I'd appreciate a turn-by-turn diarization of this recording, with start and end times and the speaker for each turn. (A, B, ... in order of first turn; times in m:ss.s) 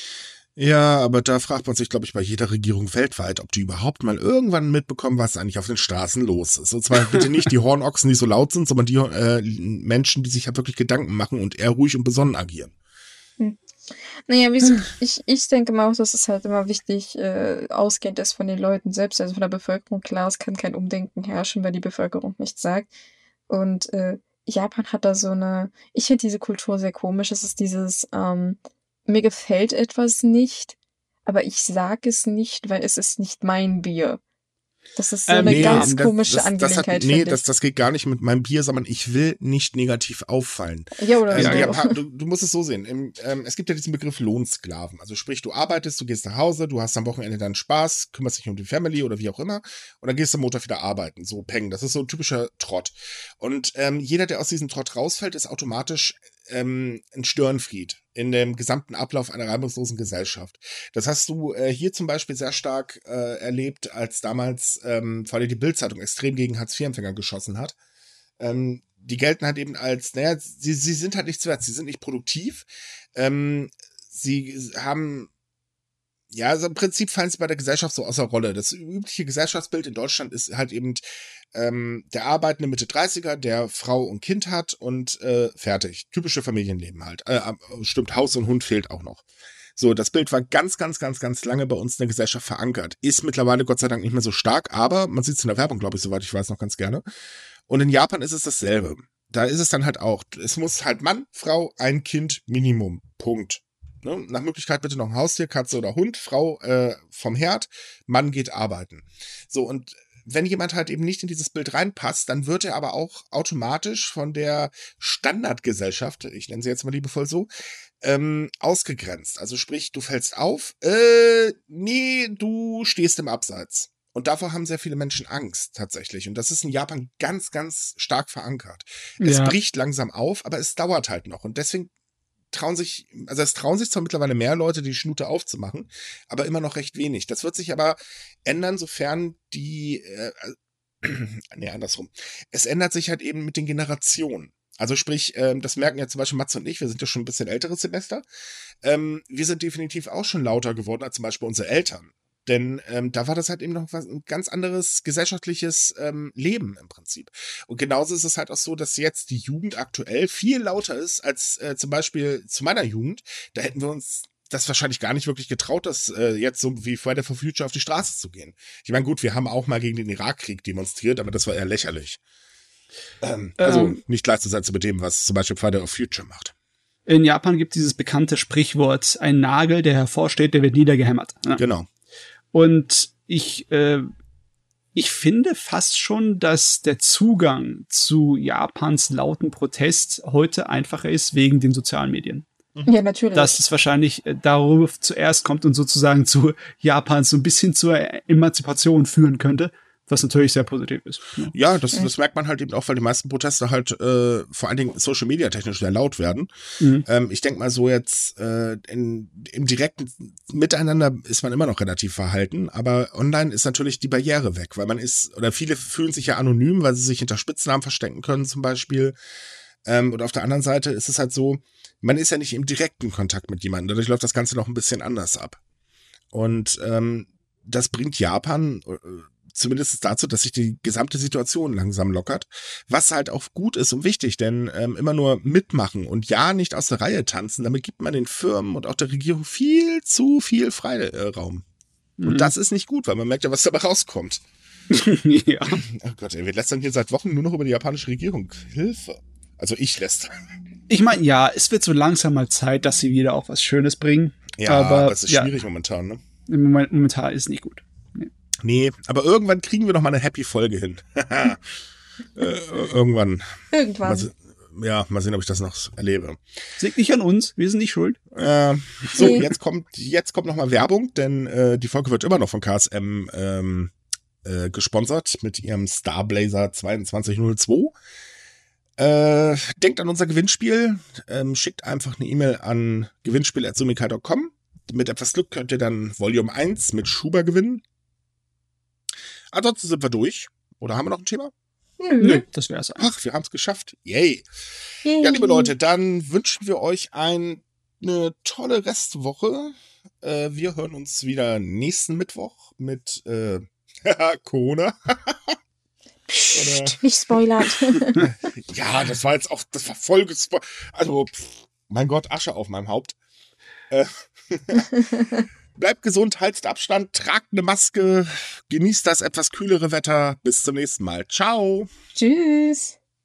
0:00.6-0:12.7 A
0:13.4-0:22.9 B
0:23.5-0:34.2 B
0:35.0-0:37.4 B
0:35.3-0:36.0 C
0:35.4-1:07.7 A
0:41.0-0:42.0 B
0:41.3-0:41.8 C
1:08.4-1:15.3 A
1:16.3-1:29.2 A
1:29.8-1:37.0 A
1:37.7-1:57.5 A
1:58.0-2:11.9 A
2:09.2-2:09.6 C
2:12.5-2:28.2 A
2:28.8-2:52.2 A
2:53.2-2:56.5 A
2:53.6-2:54.0 C
2:57.1-3:01.6 C
3:01.6-3:01.9 A
3:02.5-3:04.1 C
3:04.9-3:12.4 C
3:12.9-3:13.6 B
3:13.3-3:21.5 C
3:21.5-3:26.5 A
3:26.8-3:27.0 C
3:27.0-3:39.1 A
3:39.8-3:45.6 A
3:46.3-4:01.6 A
4:02.2-4:02.5 C
4:02.2-4:04.4 A
4:04.9-4:05.8 C
4:05.7-4:10.4 A
4:10.9-4:15.5 C
4:14.6-4:16.2 A
4:16.5-4:18.3 C
4:18.6-4:21.8 A
4:22.3-4:26.4 A
4:23.7-4:24.3 B
4:26.8-4:28.2 C
4:28.3-4:33.9 A
4:29.2-4:29.4 B
4:34.4-4:37.9 A
4:39.0-4:47.8 A
4:49.5-4:51.5 A
4:52.0-4:52.4 B
4:52.2-4:53.0 C
4:53.0-4:54.4 A
4:55.0-4:55.7 B
4:55.2-5:05.6 A
5:06.3-5:08.3 B
5:06.5-5:07.0 A
5:08.2-5:13.2 A
5:13.9-5:14.9 A
5:14.9-5:15.4 B
5:15.7-5:21.9 A
5:22.1-5:23.0 B